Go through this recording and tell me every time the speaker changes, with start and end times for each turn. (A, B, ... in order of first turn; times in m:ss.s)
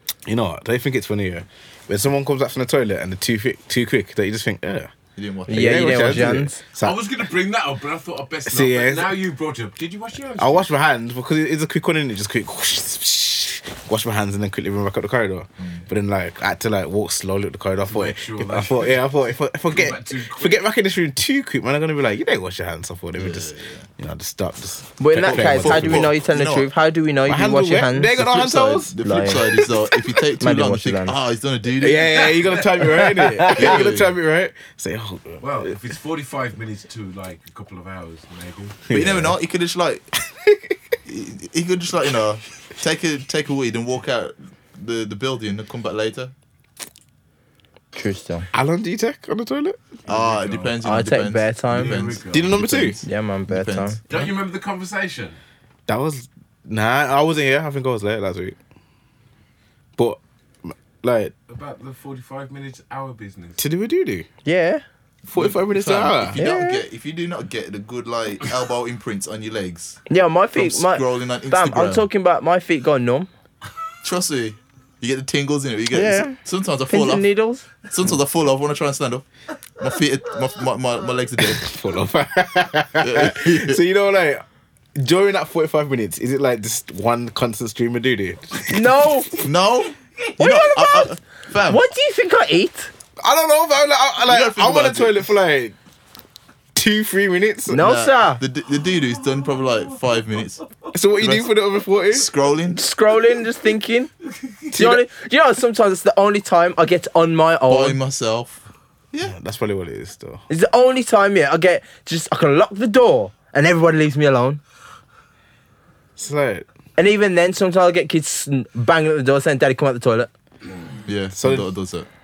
0:00.2-0:04.9 A
0:05.2-0:06.3 B
0:05.5-0:06.6 C
0:05.5-0:07.0 A
0:06.8-0:10.7 D
0:08.4-0:09.2 A
0:10.4-0:26.1 A
0:15.6-0:15.8 B
0:17.8-0:19.1 D
0:19.6-0:20.6 D
0:23.2-0:23.9 B
0:25.0-0:29.5 C
0:25.2-0:26.7 B
0:27.2-0:28.9 A
0:28.9-0:32.5 B
0:30.4-0:31.1 C
0:31.8-0:35.7 A
0:33.5-0:34.1 B
0:35.4-0:38.8 D
0:38.9-0:39.4 A
0:38.9-0:40.1 B
0:40.3-0:40.8 A
0:41.0-0:46.3 B
0:47.9-0:48.5 C
0:48.5-0:49.8 A
0:50.0-0:50.7 D
0:50.1-0:54.3 B
0:50.8-0:52.0 C
0:51.7-0:52.6 D
0:52.3-0:53.0 A
0:53.0-0:54.0 C
0:54.1-0:55.4 D
0:55.9-0:58.6 A
1:00.0-1:01.3 A
1:01.5-1:03.6 D
1:03.6-1:04.3 A
1:04.4-1:04.8 C
1:05.2-1:10.0 B
1:05.3-1:06.4 A
1:06.4-1:06.8 C
1:10.1-1:13.3 C
1:10.6-1:12.0 B
1:14.0-1:17.3 B
1:15.9-1:16.4 C
1:16.9-1:17.6 C
1:17.8-1:19.2 B
1:19.8-1:21.6 B
1:21.5-1:24.4 A
1:23.0-1:23.8 B
1:25.0-1:28.6 A
1:28.7-1:29.3 C
1:29.4-1:31.8 B
1:30.4-1:32.9 C
1:33.2-1:35.7 A
1:34.2-1:35.3 B
1:36.7-1:38.0 A
1:37.7-1:38.4 C
1:37.8-1:40.6 B
1:38.8-1:39.9 D
1:40.9-1:42.3 A
1:41.2-1:41.5 B
1:42.1-1:42.8 B
1:42.8-1:44.1 C
1:44.4-1:44.7 D
1:44.7-1:45.0 A
1:44.7-1:48.0 C
1:47.7-1:49.3 B
1:49.2-1:50.4 A
1:50.5-1:54.6 C
1:56.2-1:56.6 A
1:57.0-2:00.3 C
2:01.0-2:02.1 B
2:01.4-2:01.7 A